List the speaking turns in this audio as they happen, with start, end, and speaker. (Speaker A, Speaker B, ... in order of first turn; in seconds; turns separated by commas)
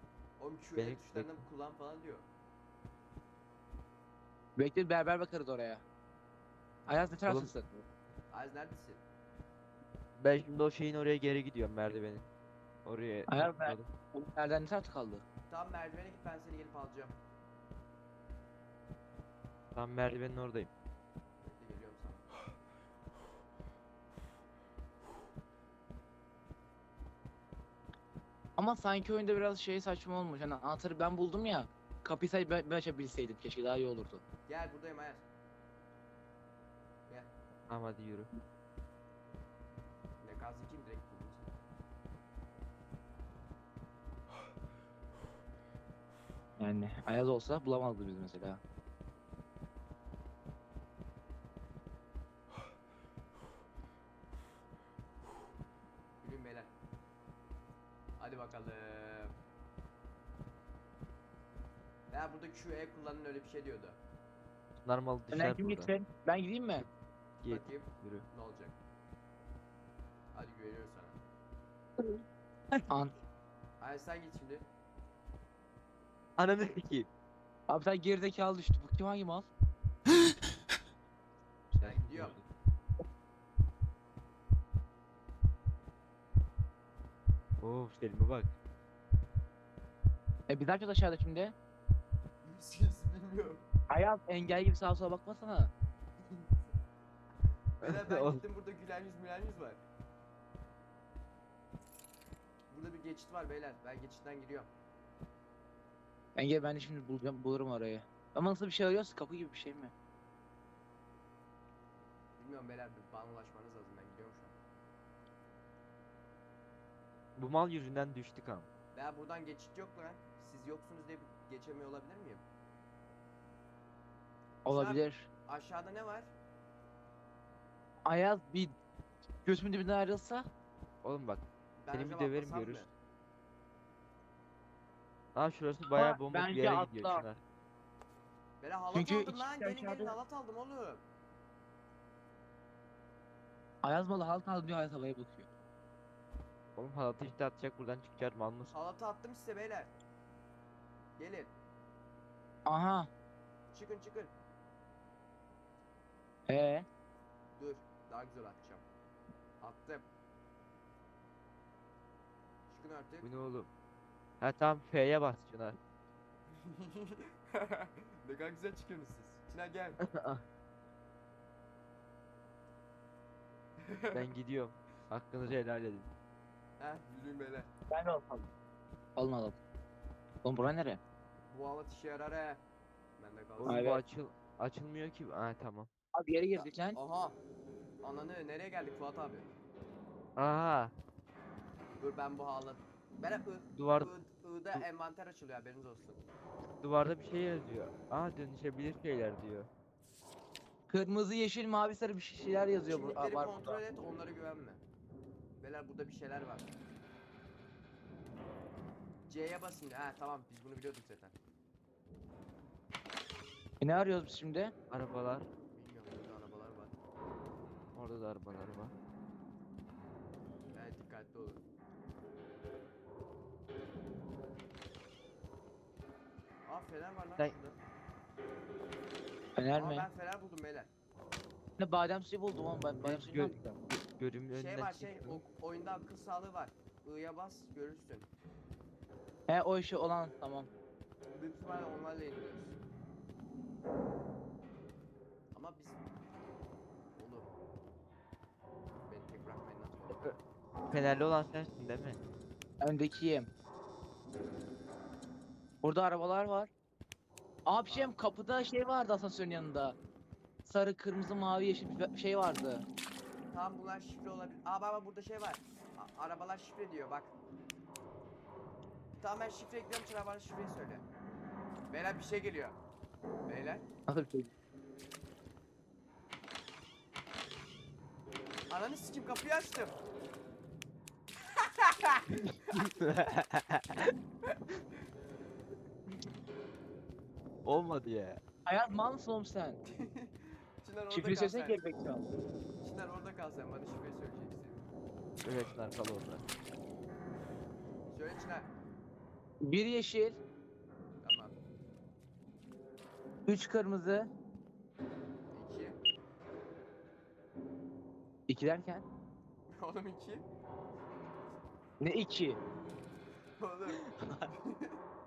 Speaker A: 0.4-2.2, Speaker B: 0.8-1.3, Speaker C: 4.6-5.8, Speaker C: 6.9-7.8, Speaker A: 8.3-9.0, Speaker B: 10.2-12.2, Speaker B: 12.8-13.9, Speaker C: 13.3-15.2, Speaker A: 15.5-17.1, Speaker B: 19.7-20.7, Speaker A: 21.4-22.2, Speaker C: 28.6-34.2, Speaker A: 34.5-35.2, Speaker B: 37.7-38.3, Speaker A: 40.2-41.5, Speaker C: 46.6-48.6, Speaker A: 56.2-56.7, Speaker A: 58.2-59.3, Speaker A: 62.1-64.0, Speaker B: 64.8-65.9, Speaker C: 65.3-66.9, Speaker B: 67.4-68.2, Speaker A: 67.5-68.8, Speaker A: 70.3-71.2, Speaker C: 72.0-73.1, Speaker A: 73.8-74.7, Speaker B: 76.4-77.1, Speaker C: 77.7-79.5, Speaker B: 81.7-82.4, Speaker A: 81.8-82.3, Speaker B: 87.6-88.5, Speaker C: 90.5-91.5, Speaker A: 92.4-93.6, Speaker C: 93.9-95.7, Speaker B: 97.8-98.4, Speaker A: 97.8-99.8, Speaker A: 102.7-104.7, Speaker C: 106.3-109.9, Speaker A: 112.4-114.5, Speaker B: 117.3-118.7, Speaker A: 118.9-122.4, Speaker C: 124.6-125.3, Speaker A: 124.7-126.3, Speaker C: 128.0-128.8, Speaker C: 129.4-130.5, Speaker B: 131.0-132.8, Speaker A: 131.8-132.9, Speaker B: 135.3-137.4, Speaker C: 135.9-137.2, Speaker A: 138.6-141.0, Speaker C: 138.9-140.1, Speaker C: 143.8-145.5, Speaker B: 146.8-148.7, Speaker A: 148.7-149.9, Speaker A: 151.2-151.5, Speaker C: 152.7-153.1, Speaker A: 153.7-154.3, Speaker C: 156.5-156.8, Speaker A: 157.6-158.8, Speaker A: 159.6-160.1, Speaker A: 162.7-163.3, Speaker B: 163.2-163.7, Speaker B: 164.4-165.8, Speaker A: 166.5-170.0, Speaker B: 170.0-170.4, Speaker A: 173.8-174.2, Speaker B: 174.1-176.1, Speaker A: 176.8-177.7, Speaker C: 177.9-178.5, Speaker C: 179.2-179.6, Speaker C: 180.4-181.0, Speaker A: 181.5-182.6, Speaker A: 183.2-183.8, Speaker B: 183.6-185.9, Speaker C: 183.7-184.0, Speaker C: 186.1-187.0, Speaker A: 186.6-187.4, Speaker A: 188.0-189.5, Speaker B: 190.4-190.9, Speaker A: 192.0-196.2, Speaker B: 193.7-194.1, Speaker B: 196.8-199.7, Speaker C: 200.9-203.8, Speaker A: 202.9-204.8, Speaker A: 205.6-206.7, Speaker A: 209.3-211.3, Speaker C: 213.8-214.7, Speaker B: 214.9-215.5, Speaker A: 215.7-217.0, Speaker B: 217.9-218.9, Speaker A: 220.7-221.6, Speaker A: 226.7-227.8, Speaker C: 229.6-230.1, Speaker A: 229.7-230.9, Speaker C: 231.8-233.8, Speaker B: 233.0-235.4, Speaker A: 234.5-238.3, Speaker C: 239.5-240.7, Speaker A: 241.3-242.8, Speaker A: 245.5-246.0, Speaker A: 247.2-247.5, Speaker A: 249.1-250.4, Speaker B: 250.9-252.2, Speaker C: 252.8-253.5, Speaker C: 255.8-256.7, Speaker C: 257.7-259.9, Speaker A: 257.9-258.1, Speaker C: 260.6-262.9, Speaker A: 263.5-267.3, Speaker A: 269.2-271.0, Speaker A: 271.9-272.8, Speaker A: 273.5-273.8, Speaker C: 274.1-274.5, Speaker A: 278.7-280.0, Speaker A: 281.8-282.8, Speaker B: 282.8-284.1, Speaker B: 287.6-288.4, Speaker C: 288.6-289.8, Speaker A: 289.9-291.8, Speaker C: 291.1-292.2, Speaker A: 292.8-294.8, Speaker B: 295.4-296.4, Speaker A: 298.1-298.7, Speaker C: 299.6-300.4, Speaker A: 301.2-301.6, Speaker C: 303.4-304.3, Speaker A: 305.5-306.0, Speaker C: 308.5-309.0, Speaker A: 309.7-310.5, Speaker C: 312.0-312.6, Speaker A: 313.6-315.0, Speaker B: 313.9-314.5